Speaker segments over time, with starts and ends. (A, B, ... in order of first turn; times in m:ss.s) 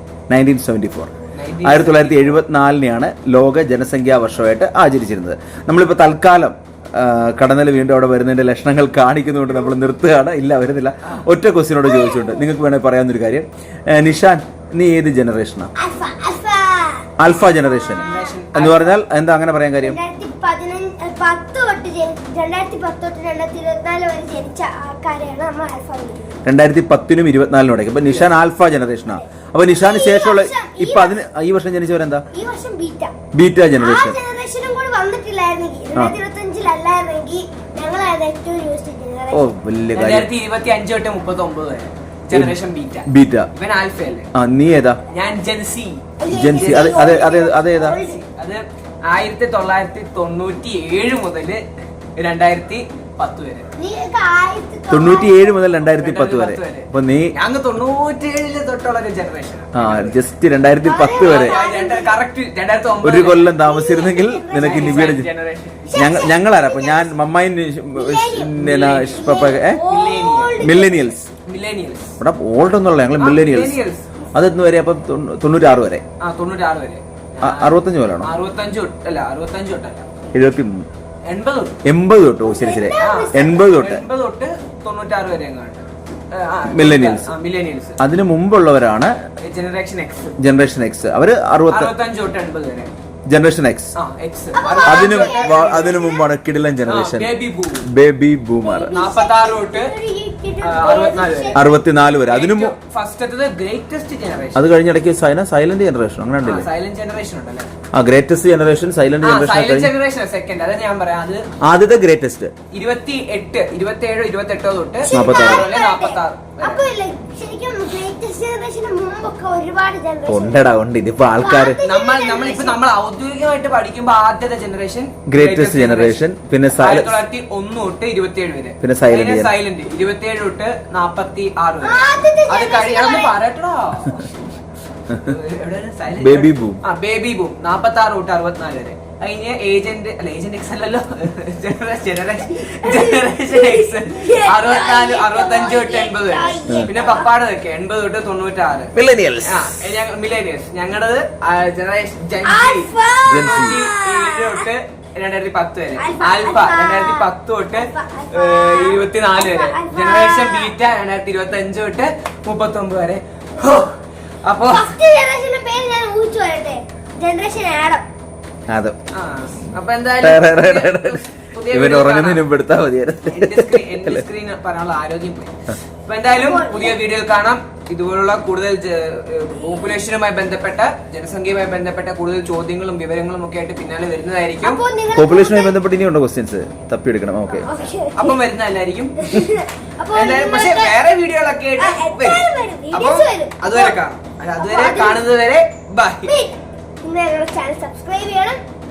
0:00.3-0:01.1 A
0:01.3-0:02.4 B
0:01.6-0:15.7 A
0:11.8-0:12.5 C
0:15.8-0:18.4 C
0:17.2-0:20.0 A
0:17.9-0:19.0 B
0:19.8-0:26.4 C
0:26.4-0:32.2 A
0:29.6-0:31.2 C
0:32.3-0:33.1 C
0:33.3-0:34.2 A
0:33.8-0:39.5 C
0:39.3-0:40.3 A
0:39.9-0:44.3 B
0:43.1-0:43.5 A
0:44.3-0:45.0 A
0:45.1-0:51.6 B
0:46.2-0:48.2 C
0:46.3-0:48.0 A
0:52.2-0:53.7 B
0:53.8-0:55.7 C
0:54.9-0:57.3 A
0:55.8-1:00.2 B
0:59.7-1:01.6 A
1:00.8-1:02.2 C
1:01.2-1:03.5 B
1:03.0-1:05.3 A
1:03.5-1:05.1 C
1:04.6-1:05.8 B
1:05.8-1:07.2 C
1:05.9-1:09.8 A
1:07.9-1:08.6 C
1:08.5-1:10.8 B
1:09.1-1:11.1 C
1:10.6-1:11.3 A
1:11.4-1:12.1 B
1:12.2-1:13.8 A
1:13.2-1:14.1 B
1:14.3-1:16.0 A
1:16.2-1:20.1 B
1:17.4-1:18.3 A
1:20.3-1:20.8 A
1:21.2-1:21.8 B
1:21.8-1:24.0 A
1:22.4-1:23.8 C
1:22.9-1:28.0 B
1:26.7-1:27.3 A
1:28.0-1:29.2 A
1:29.4-1:30.4 B
1:30.4-1:31.9 A
1:31.7-1:32.9 B
1:33.3-1:33.9 A
1:34.0-1:35.7 B
1:34.5-1:36.3 C
1:34.8-1:37.3 A
1:36.8-1:37.9 B
1:37.8-1:38.9 A
1:38.6-1:41.7 C
1:38.8-1:39.9 B
1:40.6-1:41.6 B
1:41.5-1:42.8 A
1:42.2-1:44.6 B
1:44.5-1:46.7 A
1:46.4-1:47.7 B
1:47.9-1:49.9 A
1:49.2-1:51.5 B
1:51.6-1:52.5 A
1:52.7-1:56.8 B
1:55.0-2:00.6 C
1:55.1-1:55.7 A
2:00.3-2:01.8 A
2:01.4-2:02.8 C
2:01.8-2:06.2 B
2:05.3-2:07.2 A
2:06.8-2:14.3 B
2:08.8-2:09.5 A
2:11.8-2:13.3 C
2:15.2-2:28.9 B
2:16.2-2:16.8 A
2:22.6-2:27.3 C
2:26.7-2:26.9 A
2:28.9-2:29.8 A
2:29.4-2:45.0 B
2:32.4-2:34.7 C
2:33.2-2:33.8 A
2:36.0-2:40.7 C
2:44.6-2:48.0 C
2:48.7-2:49.0 A
2:49.1-2:52.4 B
2:50.2-2:54.2 A
2:53.3-2:55.5 B
2:56.0-3:04.8 B
2:56.3-2:57.0 C
3:04.6-3:05.8 C
3:05.1-3:07.7 A
3:07.5-3:08.4 C
3:08.2-3:09.4 B
3:09.2-3:11.0 C
3:10.1-3:16.4 B
3:11.8-3:14.0 C
3:14.6-3:15.2 C
3:16.2-3:18.6 C